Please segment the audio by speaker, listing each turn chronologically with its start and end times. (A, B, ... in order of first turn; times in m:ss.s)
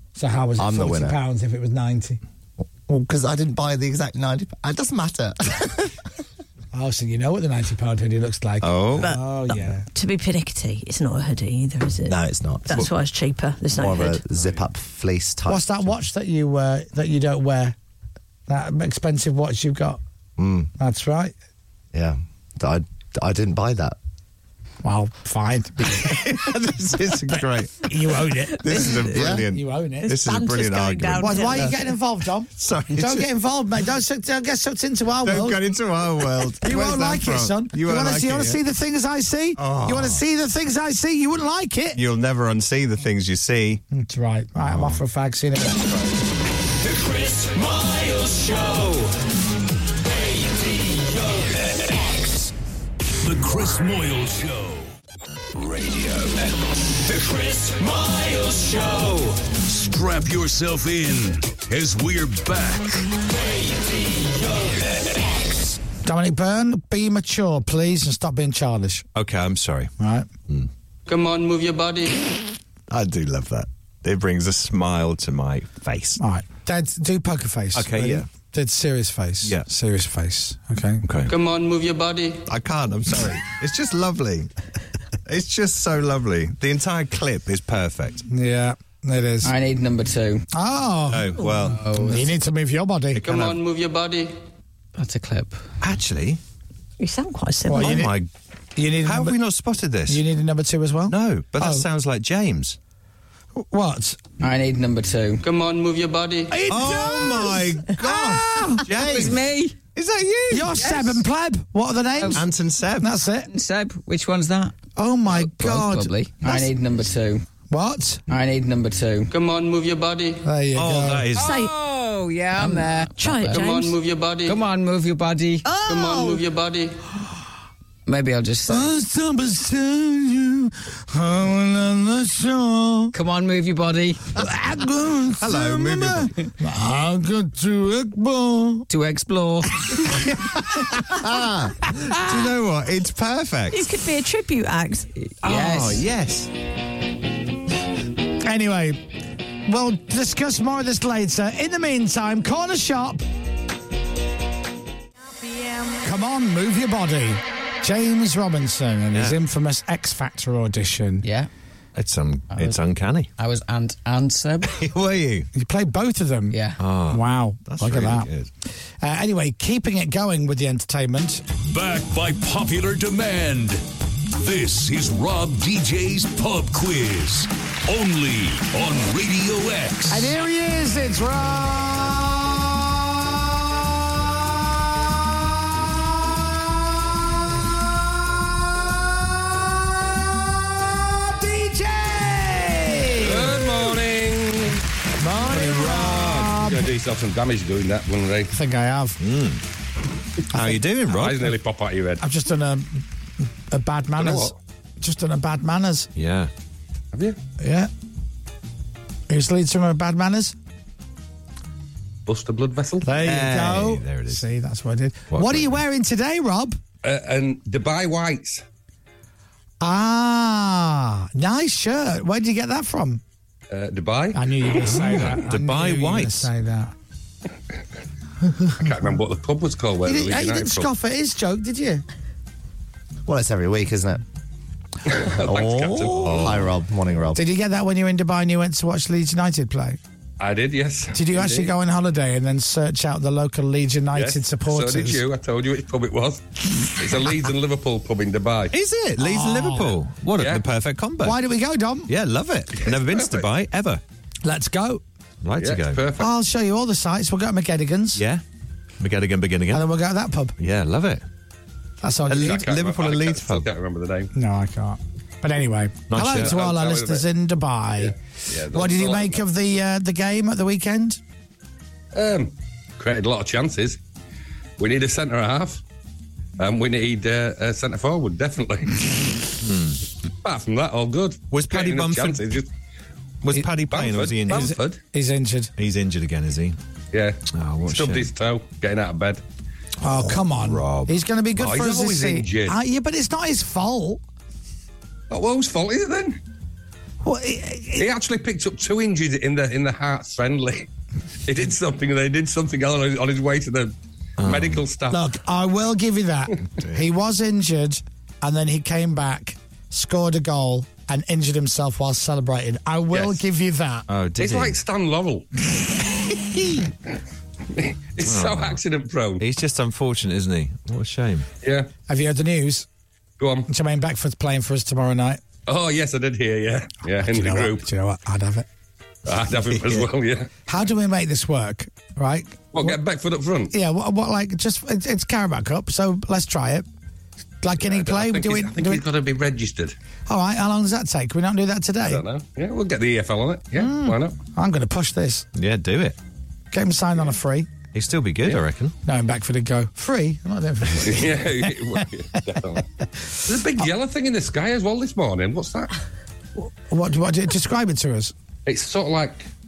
0:00.2-0:02.2 A
0:00.6-0:01.2 B
0:02.6-0:05.9 B
0:06.7-0:09.9 A
0:08.6-0:09.1 C
0:09.0-0:14.2 D
0:12.0-0:12.8 B
0:13.7-0:15.8 B
0:15.5-0:17.8 A
0:18.5-0:20.0 A
0:20.4-0:20.7 B
0:20.8-0:21.3 A
0:21.9-0:24.0 B
0:24.8-0:26.5 A
0:26.0-0:27.8 C
0:27.8-0:30.2 A
0:28.6-0:31.7 C
0:28.7-0:29.2 D
0:29.1-0:29.4 B
0:30.1-0:31.8 D
0:31.2-0:35.6 A
0:32.6-0:33.3 C
0:35.2-0:38.6 C
0:36.6-0:42.0 A
0:39.6-0:40.2 C
0:41.9-0:43.8 C
0:43.9-0:46.2 A
0:44.6-0:45.0 C
0:46.8-0:49.2 E
0:50.0-0:52.5 E
0:53.2-0:54.9 F
0:56.9-0:59.4 E
0:59.7-1:03.0 F
1:03.2-1:05.7 E
1:06.0-1:09.1 A
1:09.2-1:09.9 C
1:10.0-1:10.3 A
1:11.1-1:12.2 G
1:12.9-1:16.2 C
1:16.2-1:21.0 A
1:17.7-1:18.3 C
1:21.0-1:21.3 C
1:21.3-1:22.4 G
1:22.5-1:24.5 C
1:25.3-1:28.2 C
1:28.3-1:29.6 A
1:29.4-1:30.4 H
1:30.5-1:31.4 A
1:31.1-1:31.8 C
1:31.7-1:32.3 H
1:31.9-1:33.2 A
1:33.2-1:33.6 C
1:33.2-1:34.3 G
1:35.0-1:35.6 H
1:35.8-1:36.4 C
1:37.0-1:38.1 D
1:37.6-1:38.2 A
1:37.8-1:38.3 C
1:38.8-1:39.4 A
1:39.0-1:40.2 C
1:40.1-1:41.8 A
1:41.1-1:42.8 C
1:43.5-1:44.2 A
1:44.4-1:45.4 H
1:45.4-1:46.6 G
1:46.5-1:48.9 A
1:46.7-1:51.0 C
1:49.0-1:49.8 H
1:50.5-1:53.5 A
1:52.4-1:53.1 C
1:53.5-1:54.7 H
1:55.0-1:56.7 A
1:55.3-1:57.4 H
1:57.7-1:58.2 A
1:58.3-1:59.3 H
1:59.3-2:00.4 G
2:00.4-2:01.3 A
2:00.7-2:01.5 C
2:01.4-2:01.7 D
2:01.4-2:03.7 H
2:03.2-2:03.9 D
2:03.5-2:04.6 G
2:04.5-2:06.2 H
2:05.8-2:07.0 G
2:08.1-2:08.9 H
2:08.7-2:13.1 A
2:13.1-2:14.2 H
2:14.4-2:18.9 A
2:15.4-2:16.3 C
2:18.9-2:19.8 H
2:20.6-2:21.0 C
2:21.3-2:21.7 B
2:21.9-2:22.5 A
2:21.9-2:23.9 C
2:23.7-2:25.1 D
2:25.4-2:26.0 H
2:25.4-2:26.5 C
2:28.4-2:29.0 A
2:29.6-2:33.2 A
2:36.0-2:41.2 A
2:41.2-2:41.5 H
2:41.9-2:43.3 C
2:42.5-2:42.8 H
2:43.4-2:44.8 H
2:44.7-2:45.5 C
2:45.5-2:48.3 A
2:46.5-2:46.8 H
2:46.8-2:48.5 C
2:49.0-2:51.4 A
2:51.6-2:53.8 F
2:54.4-3:00.3 F
3:00.1-3:06.6 A
3:08.2-3:13.7 A
3:13.2-3:14.8 I
3:15.2-3:16.9 A
3:15.4-3:16.6 C
3:16.6-3:18.5 I
3:18.5-3:19.2 A
3:19.2-3:19.6 C
3:20.5-3:20.9 A
3:20.5-3:21.5 C
3:21.1-3:22.2 I
3:22.2-3:23.0 A
3:23.7-3:26.1 A
3:24.2-3:24.5 I
3:26.2-3:26.5 C
3:27.6-3:27.9 A
3:29.3-3:30.6 A
3:32.3-3:33.1 I
3:33.0-3:36.8 A
3:33.2-3:34.4 C
3:35.3-3:35.8 C
3:37.0-3:38.6 I
3:39.8-3:43.2 A
3:43.7-3:45.4 I
3:44.3-3:46.9 A
3:44.8-3:46.5 C
3:48.8-3:50.9 I
3:50.0-3:52.0 A
3:53.3-3:54.2 B
3:55.1-3:56.7 I
3:55.3-3:57.4 B
3:56.1-3:56.7 C
3:57.4-4:00.0 A
4:00.4-4:01.7 I
4:01.1-4:05.2 A
4:04.1-4:06.4 I
4:06.9-4:08.7 I
4:08.7-4:11.4 C
4:09.2-4:10.0 A
4:10.4-4:10.6 I
4:11.2-4:12.1 A
4:12.1-4:14.0 C
4:12.8-4:13.4 I
4:14.4-4:15.0 A
4:15.4-4:16.0 C
4:15.6-4:16.3 I
4:16.2-4:18.2 A
4:18.2-4:18.4 C
4:19.0-4:19.9 C
4:19.7-4:20.6 A
4:20.6-4:21.2 C
4:22.0-4:22.6 A
4:22.3-4:23.7 C
4:22.4-4:24.3 I
4:24.3-4:28.2 A
4:26.1-4:26.6 C
4:26.3-4:27.2 I
4:28.0-4:29.4 I
4:28.7-4:31.2 A
4:32.1-4:34.0 I
4:34.8-4:35.8 I
4:36.6-4:39.1 I
4:39.6-4:40.0 C
4:40.4-4:42.7 I
4:41.5-4:42.4 C
4:43.4-4:44.7 C
4:43.9-4:45.0 I
4:44.4-4:45.7 A
4:45.8-4:46.8 C
4:47.1-4:49.4 I
4:47.5-4:48.3 C
4:50.0-4:54.2 A
4:50.1-4:51.2 C
4:51.6-4:52.8 I
4:55.3-4:56.4 I
4:57.2-4:58.1 A
4:58.0-5:00.9 I
5:01.5-5:05.3 I
5:04.4-5:04.8 C
5:05.1-5:14.1 A
5:06.8-5:07.0 C
5:13.1-5:13.4 I
5:14.1-5:14.8 C
5:14.4-5:15.4 I
5:17.7-5:19.4 I
5:18.2-5:18.8 C
5:19.4-5:21.5 C
5:21.6-5:21.9 I
5:22.1-5:22.9 A
5:23.4-5:23.7 I
5:23.7-5:25.4 A
5:25.6-5:27.9 I
5:27.1-5:28.7 A
5:29.3-5:30.5 I
5:29.6-5:30.1 C
5:30.7-5:33.0 A
5:32.7-5:33.7 I
5:33.7-5:36.9 A
5:37.6-5:39.0 A
5:37.8-5:39.9 I
5:40.3-5:42.2 A
5:42.0-5:44.4 I
5:43.8-5:44.1 C
5:44.6-5:45.4 A
5:45.6-5:46.2 C
5:46.7-5:47.7 A
5:47.9-5:48.9 C
5:49.1-5:52.8 A
5:51.0-5:52.8 I
5:53.4-5:55.9 I
5:56.6-5:58.3 A
5:58.6-5:59.5 I